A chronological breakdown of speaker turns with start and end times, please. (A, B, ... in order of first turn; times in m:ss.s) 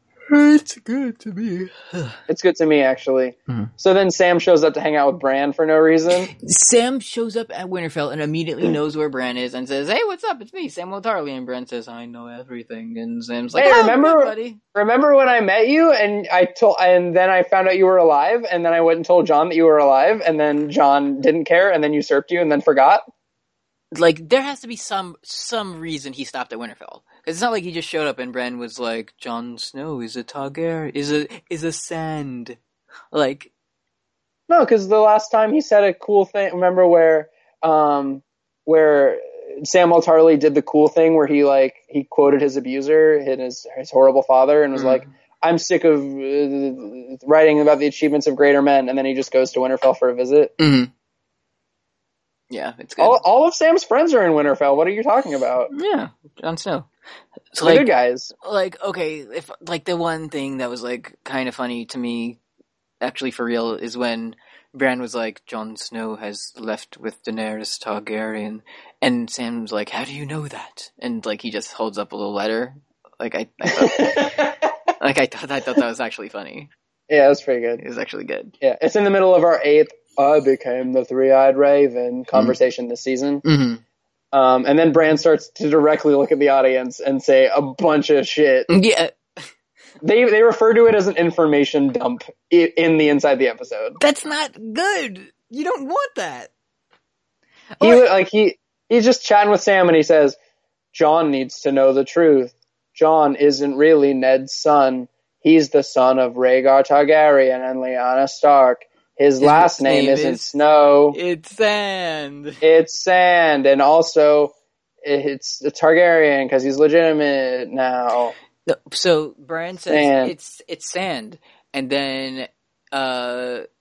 0:00.3-0:02.2 A
0:02.3-0:06.3 B
0:06.2-0:14.6 A
0:13.6-0:23.0 B
0:23.9-0:32.6 A
0:33.1-0:33.5 A
0:34.5-0:50.5 B
0:44.7-0:45.1 A
0:50.6-0:50.9 A
0:52.5-0:53.2 A
0:53.0-0:55.7 B
0:55.7-0:56.9 A
0:57.5-0:57.9 A
0:57.6-0:58.3 B
0:58.4-1:02.4 A
1:03.0-1:16.7 A
1:13.7-1:14.7 B
1:17.1-1:17.8 B
1:17.8-1:18.5 A
1:18.6-1:23.4 B
1:23.4-1:23.8 A
1:24.3-1:28.7 B
1:28.7-1:29.4 A
1:30.0-1:34.0 B
1:34.0-1:36.5 A
1:37.8-1:38.1 A
1:37.8-1:40.4 B
1:40.9-1:51.2 B
1:49.4-1:50.6 A
1:51.1-1:52.6 A
1:52.6-1:58.3 B
1:58.6-2:03.6 A
1:59.9-2:00.3 B